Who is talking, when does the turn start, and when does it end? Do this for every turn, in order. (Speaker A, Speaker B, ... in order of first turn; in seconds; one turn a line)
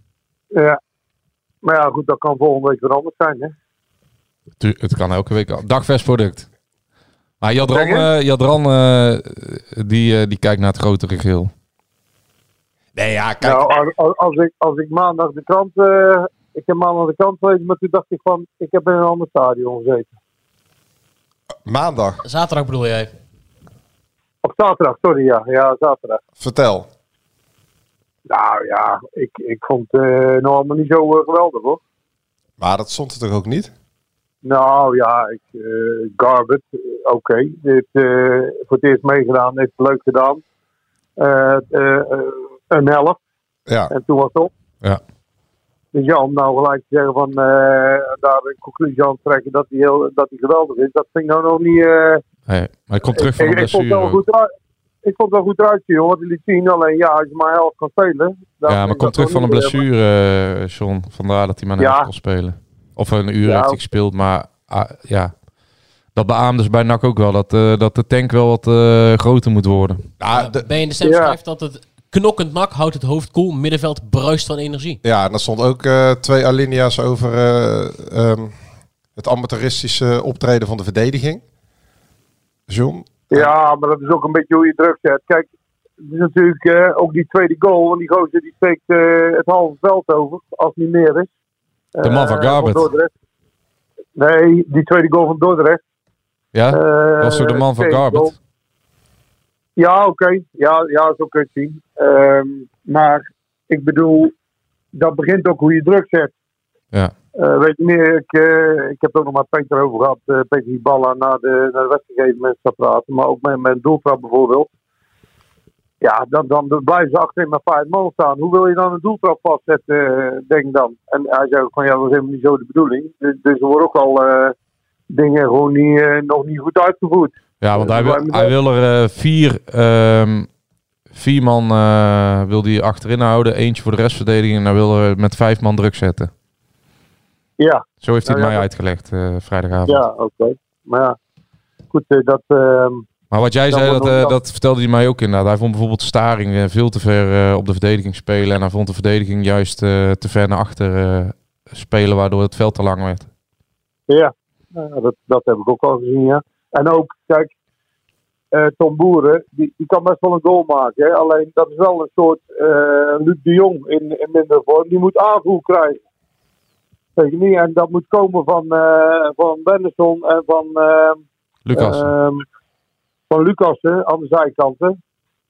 Speaker A: 0.5-0.8
Speaker A: 1.6-3.5
Speaker B: 4.6-6.5
Speaker B: 7.4-11.5
Speaker A: 7.6-8.1
Speaker C: 12.9-13.7
Speaker A: 13.4-20.1
Speaker C: 21.6-22.2
Speaker D: 22.2-23.1
Speaker A: 24.4-26.2
Speaker C: 26.4-26.9
Speaker A: 28.3-31.8
Speaker C: 32.6-33.7
Speaker A: 34.4-40.4
Speaker A: 41.2-43.2
Speaker A: 43.9-44.5
Speaker A: 45.9-52.2
Speaker B: 52.5-54.2
Speaker A: 53.1-54.5
Speaker A: 55.0-59.8
Speaker B: 58.7-65.3
Speaker A: 61.8-62.1
Speaker A: 63.5-63.8
Speaker B: 66.2-70.1
Speaker C: 70.2-70.7
Speaker D: 70.3-75.0
Speaker A: 71.0-71.4
Speaker C: 75.0-78.5
Speaker C: 79.2-81.4
Speaker C: 82.7-83.3
Speaker A: 83.3-85.5
Speaker A: 86.0-91.3
Speaker A: 92.0-93.1
Speaker B: 92.0-92.9
Speaker A: 94.2-95.8
Speaker B: 96.5-98.3
Speaker A: 96.7-98.3
Speaker A: 99.8-104.3
Speaker A: 104.9-106.3
Speaker A: 107.4-114.7
Speaker A: 116.0-124.5
Speaker A: 125.1-128.5
Speaker B: 127.6-130.5
Speaker B: 131.1-136.3
Speaker A: 137.6-138.7
Speaker B: 138.0-140.0
Speaker A: 139.9-141.2
Speaker A: 141.9-143.1
Speaker B: 143.3-153.3
Speaker A: 143.7-144.3
Speaker A: 154.1-157.5
Speaker A: 158.5-166.0
Speaker A: 167.2-171.2
Speaker B: 171.7-172.1
Speaker A: 171.7-172.4
Speaker A: 173.3-175.0